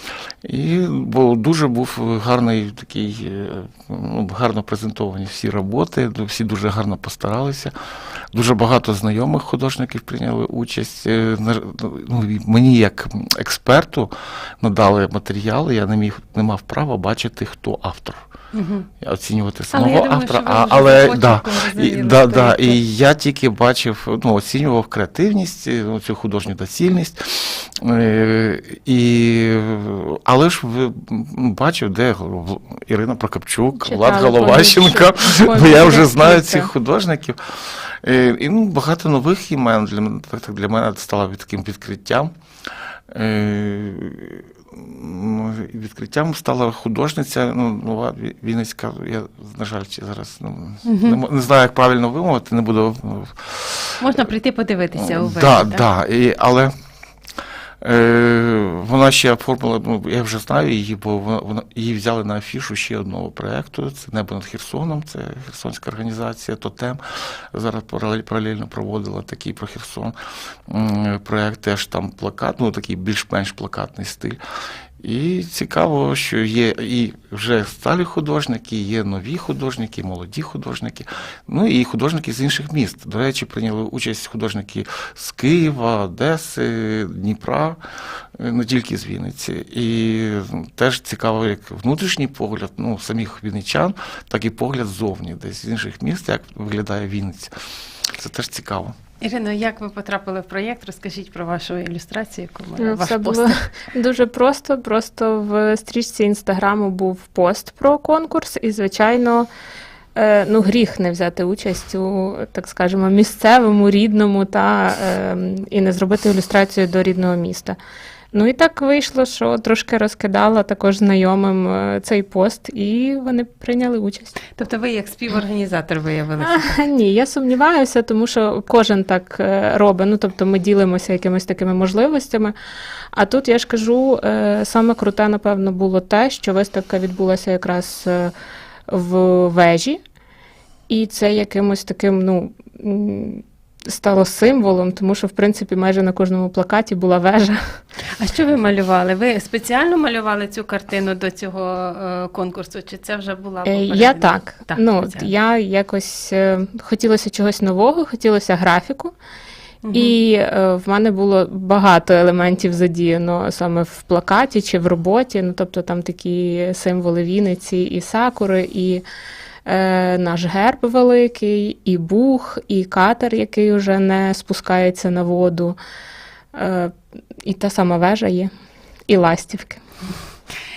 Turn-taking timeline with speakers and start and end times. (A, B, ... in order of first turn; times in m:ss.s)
0:00.4-0:07.7 A
0:08.3-0:18.2 A
0:18.5-0:18.9 B
0:19.0-0:42.3 A
0:19.7-0:22.8 B
0:33.9-0:34.2 B
0:33.9-0:36.7 C
0:43.1-0:54.0 A
0:50.9-0:51.2 B
0:54.0-0:55.8 B
0:55.0-0:56.7 A
0:57.8-1:10.2 A
1:10.7-1:14.4 A
1:15.0-1:27.8 A
1:28.4-1:37.5 A
1:38.2-1:39.0 A
1:39.2-1:43.6 B
1:42.8-1:49.5 C
1:50.2-1:57.8 C
1:58.3-2:04.3 C
2:04.6-2:06.7 B
2:06.4-2:12.5 C
2:13.1-2:18.3 C
2:18.9-2:20.0 C
2:20.9-2:27.8 C
2:28.2-2:35.3 B
2:33.7-2:39.1 C
2:39.8-2:40.2 B
2:39.9-2:49.0 C
2:49.7-2:55.8 C
2:56.6-2:58.5 C
2:59.1-2:59.8 C